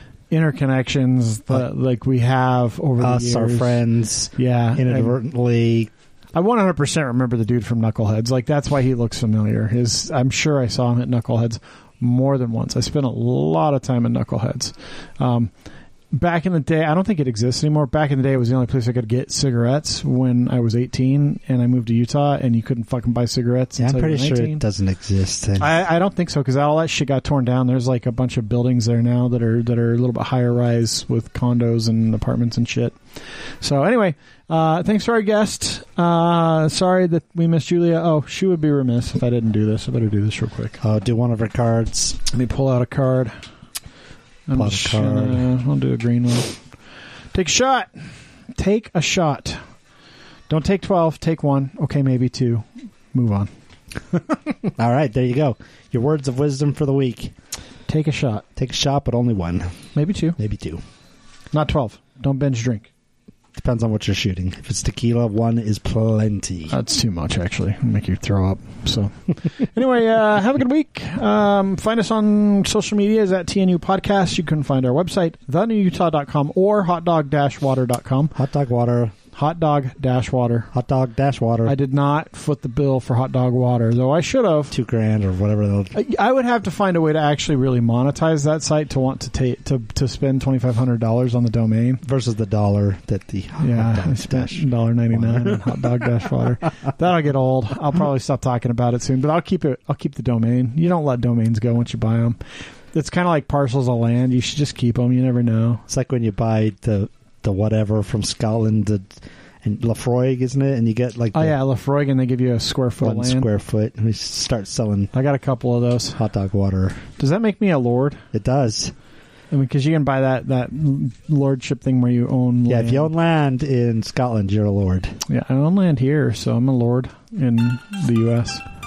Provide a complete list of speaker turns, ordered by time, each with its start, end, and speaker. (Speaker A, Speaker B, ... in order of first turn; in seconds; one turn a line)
Speaker A: 0.3-3.8
Speaker B: 3.0-5.9
Speaker A: 4.3-5.2
Speaker A: 6.3-15.5
Speaker A: 16.1-24.6
Speaker B: 23.8-25.7
Speaker A: 25.6-40.8
Speaker B: 40.8-42.2
Speaker A: 42.3-43.4
Speaker A: 44.5-46.5
Speaker B: 44.5-45.4
Speaker A: 47.3-49.6
Speaker A: 50.5-53.5
Speaker B: 54.8-57.3
Speaker A: 57.9-58.4
Speaker B: 58.5-59.7
Speaker A: 59.9-60.4
Speaker B: 60.4-60.8
Speaker A: 61.5-62.9
Speaker B: 63.5-66.7
Speaker A: 66.7-78.3
Speaker B: 78.3-79.1
Speaker A: 79.3-80.7
Speaker B: 80.7-81.8
Speaker A: 81.7-84.8
Speaker B: 84.7-85.9
Speaker A: 85.9-92.0
Speaker B: 92.0-96.1
Speaker A: 93.6-102.4
Speaker A: 102.9-105.8
Speaker B: 105.9-111.5
Speaker A: 111.3-113.5
Speaker B: 113.0-115.1
Speaker A: 115.1-116.2
Speaker B: 116.2-117.1
Speaker A: 117.2-118.2
Speaker B: 118.3-118.9
Speaker A: 119.5-123.1
Speaker B: 122.7-125.2
Speaker A: 125.3-128.6